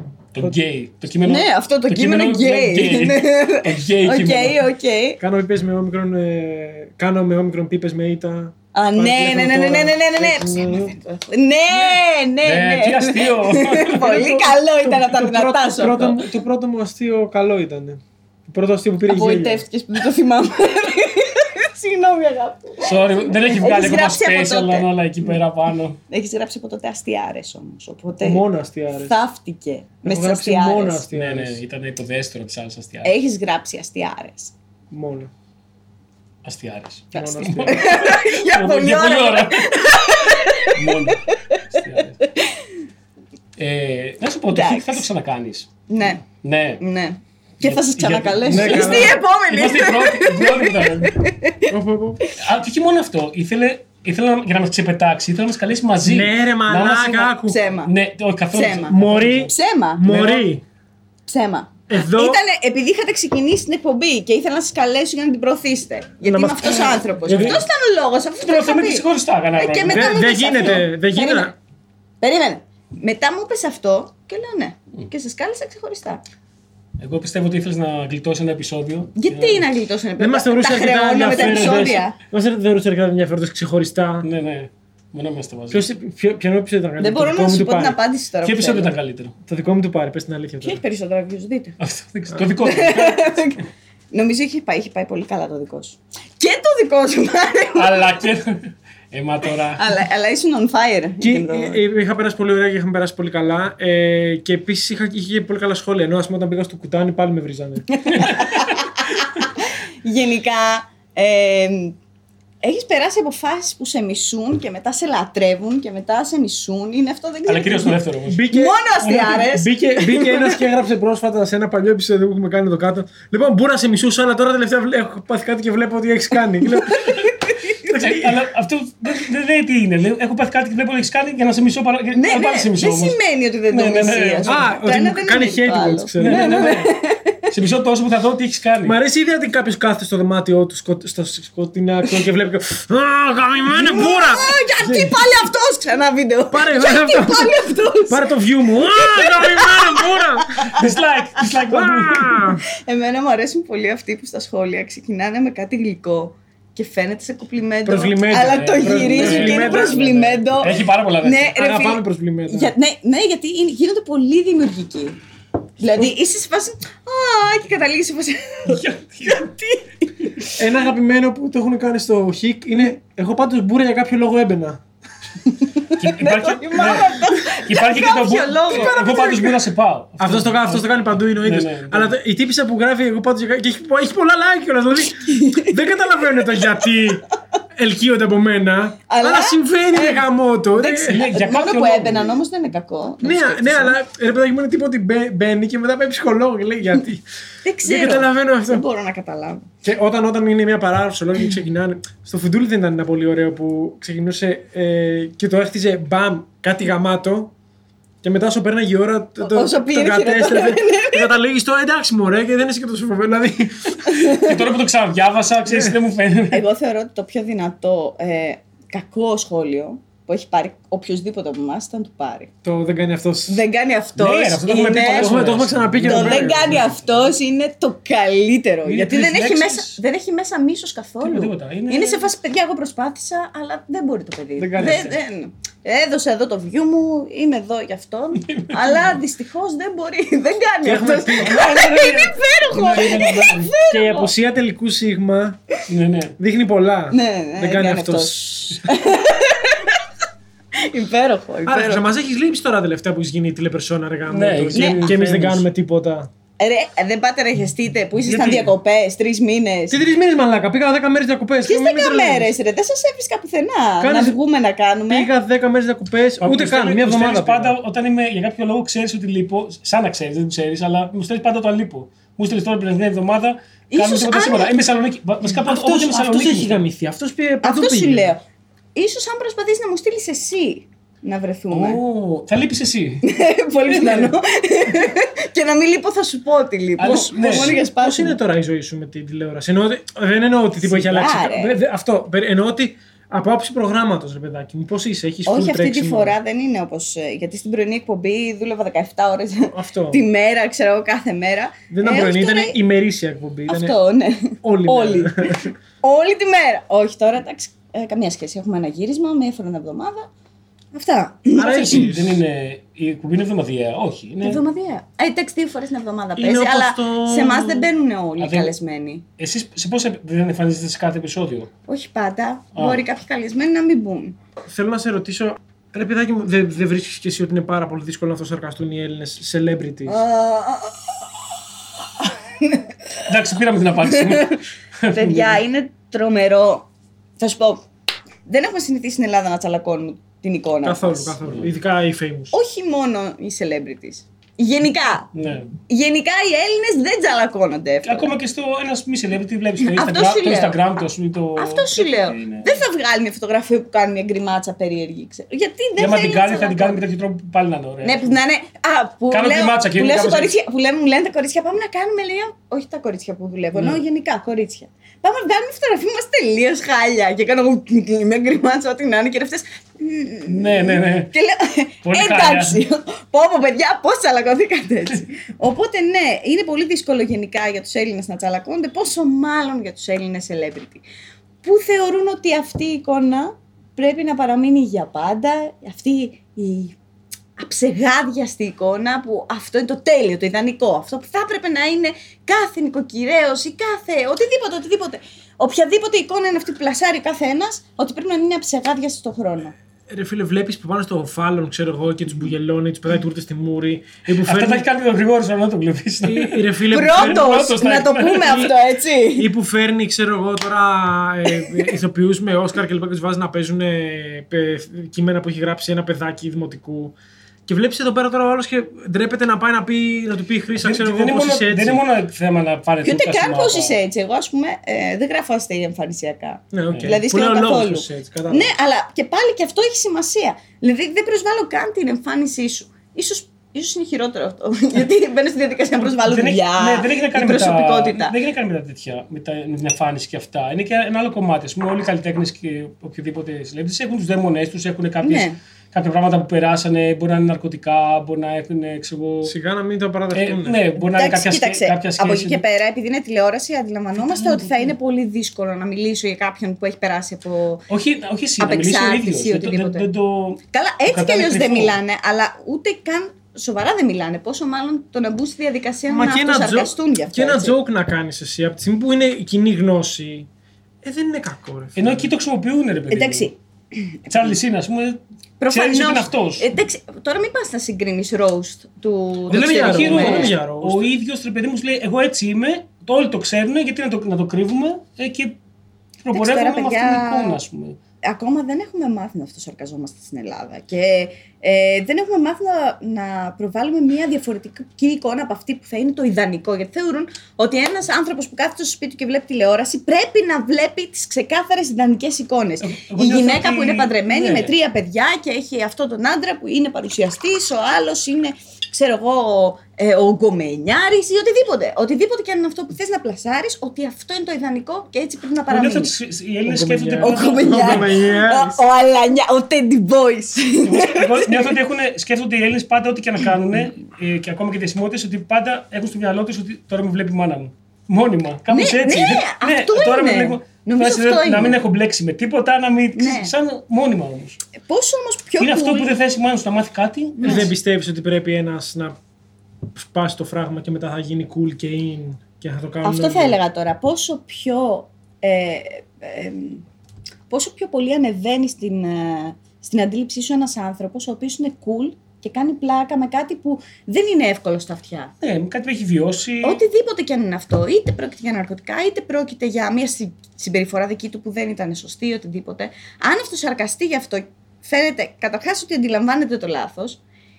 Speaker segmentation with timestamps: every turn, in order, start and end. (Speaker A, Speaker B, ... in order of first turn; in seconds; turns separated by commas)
Speaker A: 0.3-4.6, Speaker B: 1.2-5.2, Speaker C: 5.2-10.9, Speaker B: 8.7-16.2, Speaker A: 12.4-14.6, Speaker C: 15.0-19.6, Speaker B: 19.1-25.4, Speaker A: 22.8-26.0, Speaker B: 26.1-28.4, Speaker C: 28.2-29.1, Speaker B: 29.1-31.0, Speaker C: 30.0-31.6, Speaker A: 31.1-33.1, Speaker B: 33.0-34.5, Speaker C: 34.9-35.3, Speaker A: 36.5-39.8, Speaker C: 37.1-38.0, Speaker B: 37.7-42.7, Speaker A: 40.7-42.2, Speaker A: 43.6-45.7, Speaker B: 44.5-45.1, Speaker B: 45.9-46.2, Speaker A: 46.4-46.8, Speaker B: 46.8-51.7, Speaker A: 47.6-51.2, Speaker C: 48.5-49.2, Speaker C: 51.7-52.2, Speaker A: 52.4-59.5, Speaker C: 56.0-57.6, Speaker B: 57.5-57.9, Speaker B: 58.5-60.1, Speaker C: 58.9-60.6, Speaker A: 60.1-60.5, Speaker B: 61.3-69.0, Speaker C: 61.9-62.4, Speaker C: 66.2-67.7, Speaker A: 67.2-67.7, Speaker A: 68.4-70.2, Speaker B: 69.6-71.5, Speaker C: 69.8-71.5, Speaker B: 72.2-76.2, Speaker A: 77.0-79.7, Speaker B: 79.2-82.2, Speaker C: 80.2-84.2, Speaker A: 81.3-82.0, Speaker A: 84.2-85.8, Speaker C: 85.7-88.0, Speaker B: 87.0-88.9, Speaker A: 88.4-89.3, Speaker C: 89.5-90.8, Speaker B: 90.6-91.8, Speaker A: 91.8-93.5, Speaker B: 92.6-98.1, Speaker A: 97.8-100.0, Speaker B: 99.8-101.8, Speaker C: 101.2-108.3, Speaker B: 107.9-112.0, Speaker B: 112.6-120.6, Speaker A: 117.5-118.4, Speaker C: 118.3-127.2, Speaker B: 126.9-127.8, Speaker A: 127.8-133.2, Speaker C: 127.9-128.4, Speaker B: 132.1-137.5, Speaker A: 133.7-134.6, Speaker C: 134.5-136.8, Speaker A: 136.2-136.9, Speaker A: 137.5-139.0, Speaker C: 138.8-145.2, Speaker B: 143.7-151.4, Speaker C: 146.5-147.6, Speaker C: 148.1-150.6, Speaker A: 150.7-152.5, Speaker C: 151.7-152.6, Speaker B: 152.8-165.2, Speaker C: 157.8-160.0, Speaker A: 158.4-161.5, Speaker C: 161.6-162.7, Speaker B: 165.8-170.1, Speaker A: 168.7-169.5, Speaker C: 170.6-174.8, Speaker B: 175.5-179.5, Speaker A: 176.0-182.1, Speaker C: 178.7-179.4, Speaker C: 180.2-191.2, Speaker B: 185.2-185.8, Speaker B: 189.1-194.0, Speaker A: 191.1-192.4, Speaker C: 193.2-197.2, Speaker B: 197.6-199.7, Speaker C: 197.8-198.8, Speaker C: 199.8-207.5, Speaker C: 208.2-214.2, Speaker B: 209.4-211.3, Speaker B: 214.1-214.6, Speaker A: 214.2-216.6, Speaker C: 215.7-215.9, Speaker B: 216.5-222.5, Speaker C: 222.6-223.6, Speaker B: 223.5-225.4, Speaker A: 224.2-227.3, Speaker C: 225.0-226.9, Speaker B: 226.0-244.3, Speaker A: 228.8-230.0, Speaker A: 231.2-232.3, Speaker C: 234.6-235.2, Speaker A: 234.8-235.1, Speaker A: 238.4-239.2, Speaker C: 240.8-241.7, Speaker A: 241.4-243.7, Speaker C: 243.0-245.6, Speaker A: 245.9-246.3, Speaker C: 246.4-248.8, Speaker B: 247.1-250.0, Speaker B: 250.8-252.1, Speaker C: 251.6-256.3, Speaker A: 254.3-255.6, Speaker B: 254.7-255.1, Speaker B: 256.6-260.0, Speaker A: 258.3-258.7, Speaker C: 259.9-262.5, Speaker B: 261.6-265.3, Speaker C: 264.0-264.4, Speaker C: 265.1-267.8, Speaker A: 266.4-276.8, Speaker B: 273.9-274.7, Speaker C: 275.4-278.3, Speaker B: 277.6-278.4, Speaker B: 278.9-282.0, Speaker A: 281.7-283.2, Speaker B: 283.2-288.4, Speaker A: 283.9-284.3, Speaker A: 287.0-287.8, Speaker C: 287.1-296.4, Speaker B: 291.0-291.8, Speaker B: 295.5-302.8, Speaker C: 299.7-300.2, Speaker C: 301.9-304.0, Speaker B: 303.7-310.3, Speaker C: 304.6-305.7, Speaker B: 310.9-312.1, Speaker C: 311.6-312.4, Speaker A: 311.6-314.6, Speaker B: 314.4-319.2, Speaker C: 316.4-317.9, Speaker A: 318.4-318.7, Speaker A: 319.4-321.7, Speaker B: 321.9-324.4, Speaker A: 322.8-323.0, Speaker C: 324.6-330.2, Speaker B: 330.1-331.3, Speaker B: 332.2-332.9, Speaker A: 333.2-335.6, Speaker B: 334.1-334.6, Speaker B: 335.1-336.9, Speaker B: 337.4-337.9, Speaker B: 338.5-341.4, Speaker C: 340.8-342.5, Speaker B: 342.5-345.3, Speaker A: 345.4-345.7, Speaker B: 345.9-348.3, Speaker A: 348.0-352.8, Speaker B: 349.8-350.8, Speaker B: 351.6-357.0, Speaker A: 356.0-358.4, Speaker B: 358.0-381.1, Speaker A: 359.3-360.5, Speaker A: 363.8-364.0, Speaker A: 370.5-371.3, Speaker A: 372.1-372.8, Speaker B: 381.6-387.0, Speaker B: 387.6-399.8, Speaker C: 400.1-404.9, Speaker A: 404.4-408.7, Speaker C: 406.2-407.5, Speaker B: 406.9-409.5, Speaker C: 409.4-417.1, Speaker C: 417.7-422.0, Speaker A: 420.8-424.0, Speaker B: 423.0-438.4, Speaker C: 426.7-428.7, Speaker A: 436.1-449.5, Speaker B: 445.2-445.6, Speaker C: 449.4-450.8, Speaker A: 450.3-452.6, Speaker B: 451.0-457.9, Speaker A: 454.2-454.9, Speaker A: 457.9-462.0, Speaker B: 458.6-460.1, Speaker B: 460.7-467.8, Speaker C: 466.1-470.5, Speaker C: 471.0-472.3, Speaker A: 472.0-473.5, Speaker B: 473.1-474.0, Speaker A: 474.3-476.6, Speaker B: 475.6-480.5, Speaker C: 479.5-481.1, Speaker A: 479.5-485.6, Speaker A: 486.2-488.0, Speaker B: 486.3-487.6, Speaker B: 488.2-516.1, Speaker A: 502.8-504.7, Speaker A: 515.7-518.2, Speaker C: 516.6-518.8, Speaker B: 517.2-521.7, Speaker A: 520.8-534.6, Speaker B: 528.7-531.8, Speaker B: 533.1-533.5, Speaker B: 534.8-536.1, Speaker A: 535.6-537.7, Speaker B: 537.4-537.7, Speaker C: 537.4-539.1, Speaker C: 539.9-543.6, Speaker B: 543.0-546.8, Speaker B: 547.5-555.3, Speaker A: 555.4-556.8, Speaker B: 556.6-567.2